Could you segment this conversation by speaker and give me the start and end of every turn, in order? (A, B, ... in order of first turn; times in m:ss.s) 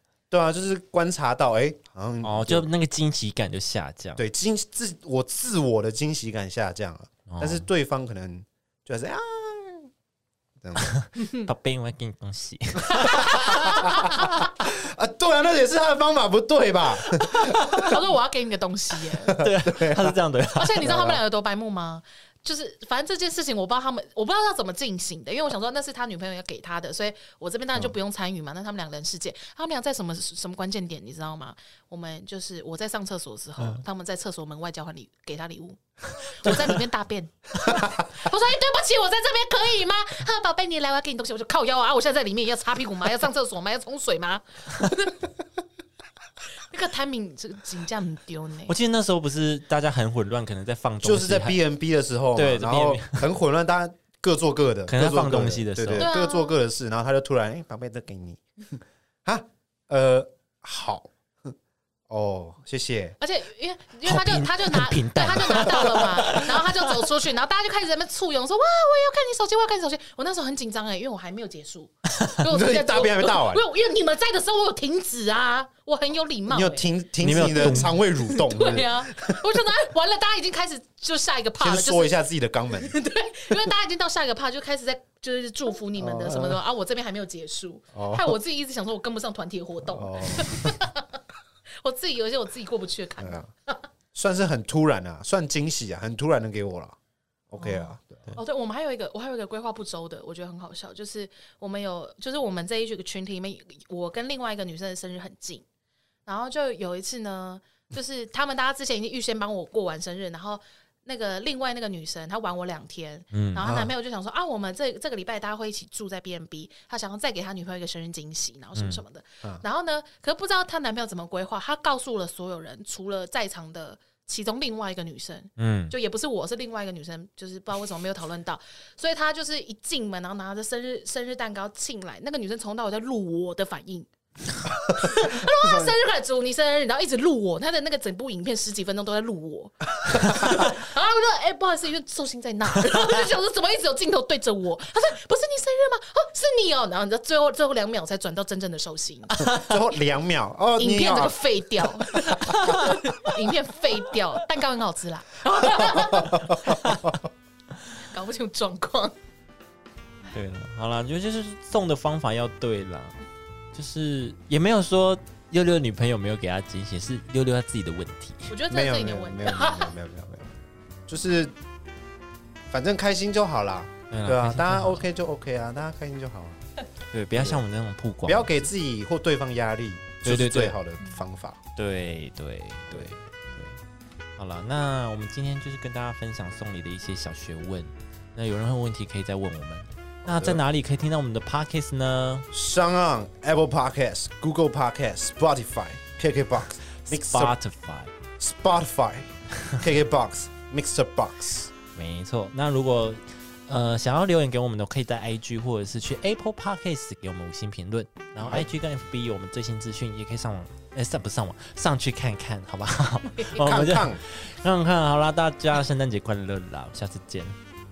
0:00.3-0:02.7 A
0:02.2-0:04.2 B
0:04.2-0:09.9 A
0:07.3-0:07.7 B
0:10.6-0:10.9 A
0:10.8-0:14.4 B
0:11.2-0:11.5 C
0:12.9-0:14.3 C
0:13.0-0:17.8 A
0:17.4-0:19.5 C
0:17.6-0:17.9 B
0:19.3-0:20.1 A
0:19.4-0:21.2 B
0:20.5-0:45.3 C
0:20.8-0:21.2 A
0:46.6-0:48.7 C
0:48.7-0:51.6 B
0:51.0-1:01.5 A
0:52.3-0:53.3 B
0:54.9-0:56.1 B
0:56.0-0:56.6 C
1:02.1-1:03.2 A
1:03.2-1:16.9 C
1:04.0-1:07.0 B
1:12.4-1:13.6 A
1:16.5-1:19.4 A
1:17.2-1:18.0 B
1:17.5-1:22.2 C
1:21.6-1:22.9 A
1:22.7-1:31.2 C
1:26.0-1:26.6 A
1:27.9-1:28.4 A
1:29.8-1:30.8 A
1:31.8-1:33.9 C
1:33.2-1:33.5 A
1:34.1-1:37.0 A
1:37.5-1:38.4 A
1:37.6-1:45.6 C
1:46.2-2:14.1 C
1:53.3-1:53.7 B
1:53.6-1:53.9 A
1:58.7-1:59.0 B
2:05.6-2:05.9 B
2:14.9-2:29.5 C
2:15.6-2:15.9 A
2:29.4-2:32.7 A
2:30.8-2:36.8 C
2:32.6-2:33.0 B
2:35.7-2:36.8 A
2:36.6-2:37.1 B
2:38.0-2:39.2 C
2:40.3-2:43.2 B
2:43.7-2:48.6 B
2:48.5-2:50.0 C
2:48.7-2:50.5 A
2:51.1-2:51.6 A
2:52.7-2:56.6 A
2:54.1-2:55.1 B
2:57.1-2:58.7 B
2:57.4-2:57.6 A
2:58.2-3:01.6 A
3:00.2-3:00.8 B
3:01.8-3:03.8 B
3:04.4-3:12.5 B
3:10.2-3:10.6 A
3:12.5-3:17.6 A
3:17.0-3:18.1 B
3:18.4-3:21.7 A
3:21.9-3:37.6 B
3:28.4-3:28.6 A
3:33.2-3:33.6 C
3:33.6-3:34.2 A